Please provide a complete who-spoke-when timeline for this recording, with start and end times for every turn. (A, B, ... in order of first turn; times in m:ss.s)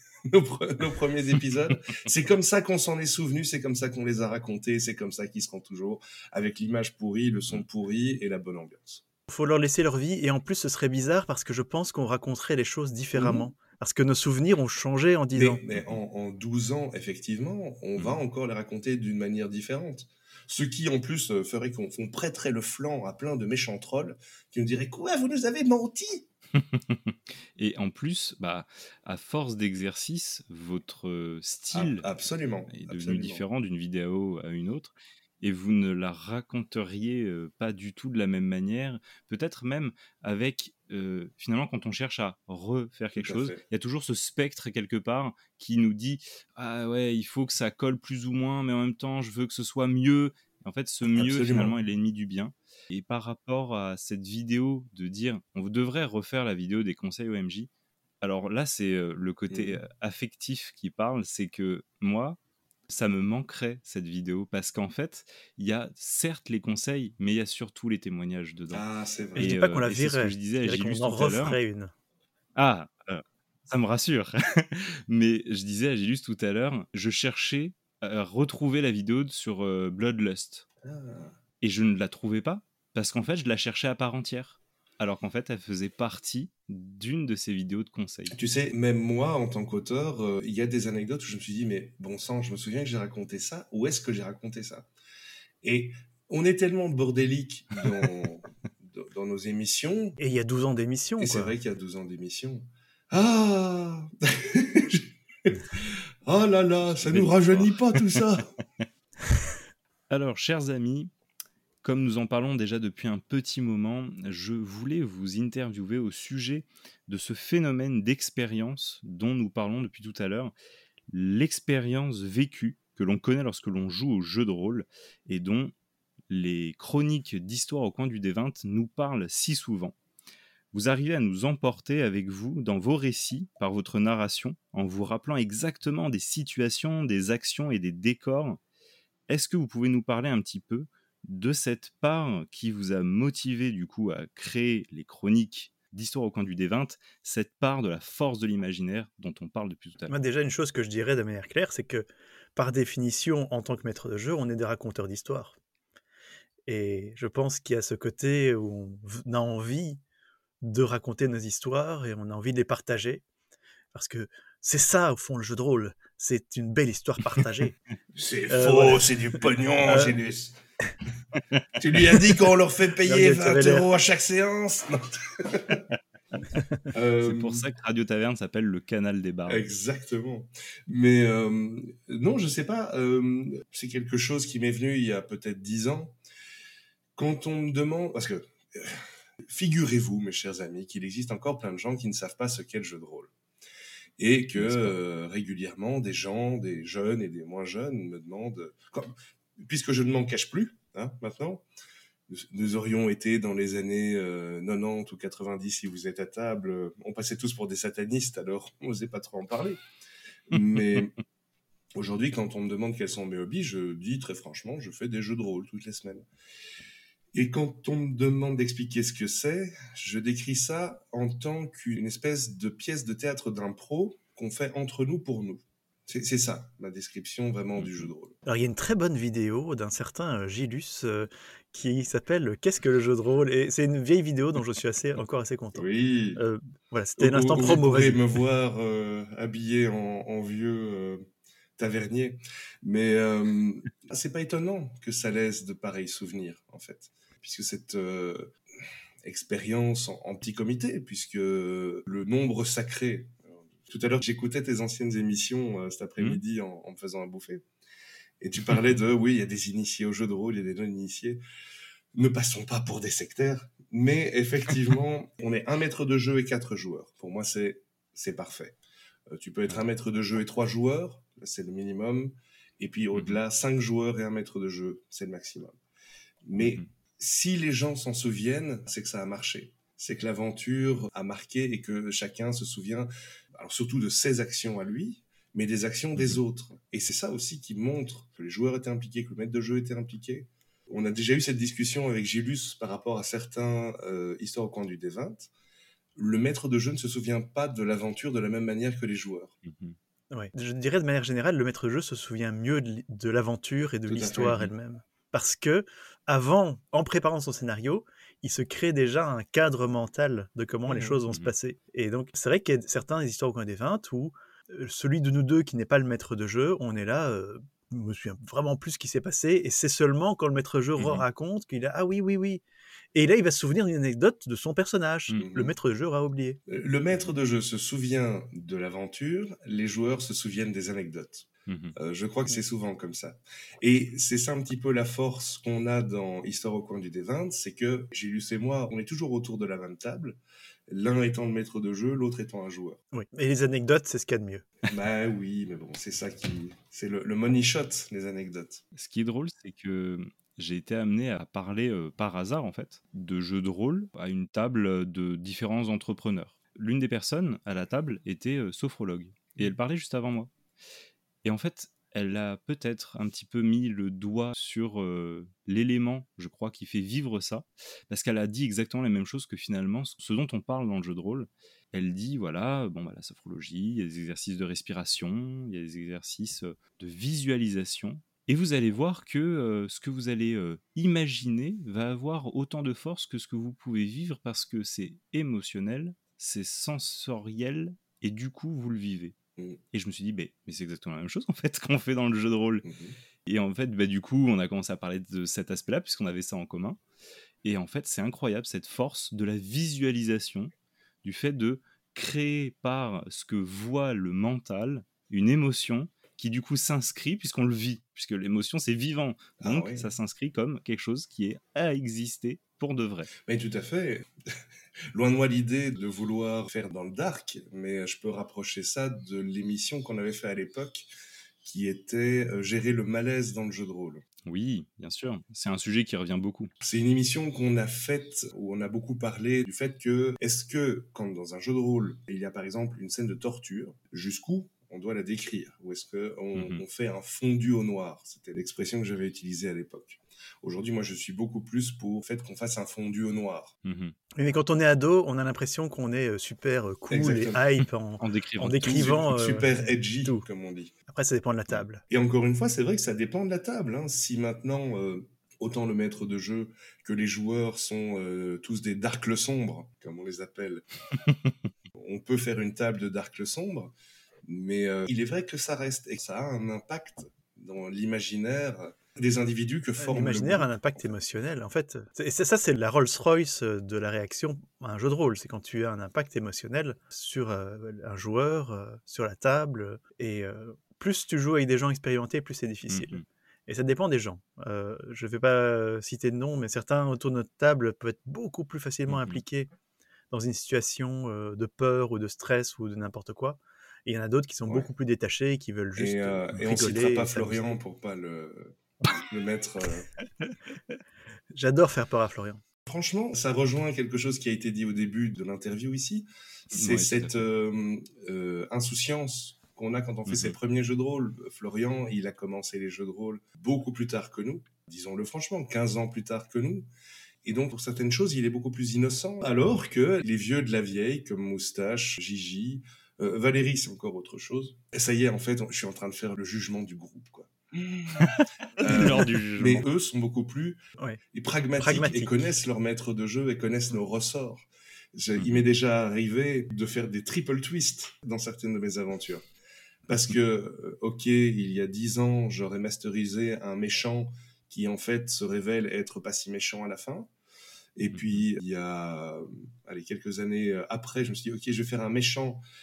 0:00.3-0:09.0 A
0:09.3-0:15.6 B
0:13.2-0:13.5 A
0:15.4-0:26.2 A
0:26.6-0:32.1 C
0:31.7-0:33.4 A
0:32.7-0:57.7 C
0:43.2-0:43.6 A
0:51.2-0:51.8 A
0:58.2-1:02.4 C
0:59.5-0:59.8 A
1:02.9-1:11.6 C
1:08.7-1:09.5 A
1:09.4-1:11.9 B
1:12.6-1:20.7 C
1:20.8-1:21.4 A
1:21.6-1:28.3 C
1:28.3-1:34.9 A
1:35.6-1:40.2 A
1:37.7-1:38.1 C
1:40.2-1:41.6 B
1:41.2-1:45.6 A
1:46.2-1:48.5 A
1:46.8-1:48.4 C
1:50.1-1:51.1 C
1:51.8-2:00.5 C
2:01.1-2:05.7 C
2:06.3-2:10.0 C
2:10.7-2:18.6 C
2:19.3-2:30.1 C
2:30.1-2:35.6 B
2:36.7-2:40.0 B
2:40.6-2:43.2 B
2:43.9-2:47.7 B
2:48.1-2:50.6 A
2:48.5-2:49.1 B
2:49.8-2:50.2 B
2:51.8-2:55.8 A
2:53.0-2:53.9 B
2:56.9-2:57.6 A
2:57.2-2:59.6 C
2:59.5-3:06.2 A
3:07.2-3:13.3 A
3:14.2-3:21.6 A
3:14.6-3:14.9 C
3:22.3-3:29.8 A
3:30.5-3:31.1 A
3:32.0-3:36.3 A
3:37.3-3:48.4 A
3:47.8-3:48.1 C
3:48.5-3:58.2 B
3:55.7-3:56.4 A
3:57.2-4:01.2 A
4:01.8-4:08.5 A
4:09.2-4:17.6 A
4:18.4-4:21.4 A
4:22.1-4:28.8 A
4:29.3-4:35.8 A
4:33.1-4:33.4 C
4:36.4-4:55.5 A
4:36.6-4:36.9 C
4:56.2-4:59.5 A
4:59.6-5:00.0 C
5:00.3-5:22.6 B
5:04.1-5:04.6 A
5:11.0-5:11.5 C
5:21.0-5:21.2 C
5:23.2-5:26.6 B
5:25.4-5:25.7 A
5:26.7-5:43.0 A
5:31.7-5:32.0 C
5:43.1-5:44.7 B
5:44.8-5:48.8 A
5:49.0-6:00.5 C
6:01.4-6:29.4 C
6:29.9-6:32.8 C
6:32.8-6:33.2 A
6:33.5-6:37.0 C
6:37.6-6:40.7 C
6:41.2-6:53.3 C
6:49.6-6:50.1 A
6:53.4-6:54.3 A
6:55.1-7:01.1 A
7:01.6-7:04.2 A
7:04.5-7:06.7 C
7:06.8-7:23.7 A
7:16.6-7:16.8 C
7:23.8-7:24.1 C
7:24.4-7:30.4 B
7:27.1-7:27.6 A
7:28.2-7:29.1 C
7:28.8-7:30.9 A
7:31.1-7:32.0 B
7:32.1-7:40.8 A
7:41.2-7:41.5 C
7:42.0-7:43.9 A
7:44.5-7:51.2 A
7:50.0-8:09.7 B
8:02.9-8:03.2 C
8:09.1-8:09.4 C
8:10.3-8:17.8 B
8:16.0-8:20.1 A
8:21.5-8:22.6 B
8:22.9-8:36.9 A
8:26.7-8:27.4 C
8:30.3-8:30.6 C
8:37.4-8:48.3 A
8:48.2-8:49.8 C
8:48.8-8:50.8 A
8:51.3-8:59.4 A
8:51.8-8:52.4 B
9:00.1-9:07.3 A
9:08.0-9:12.6 A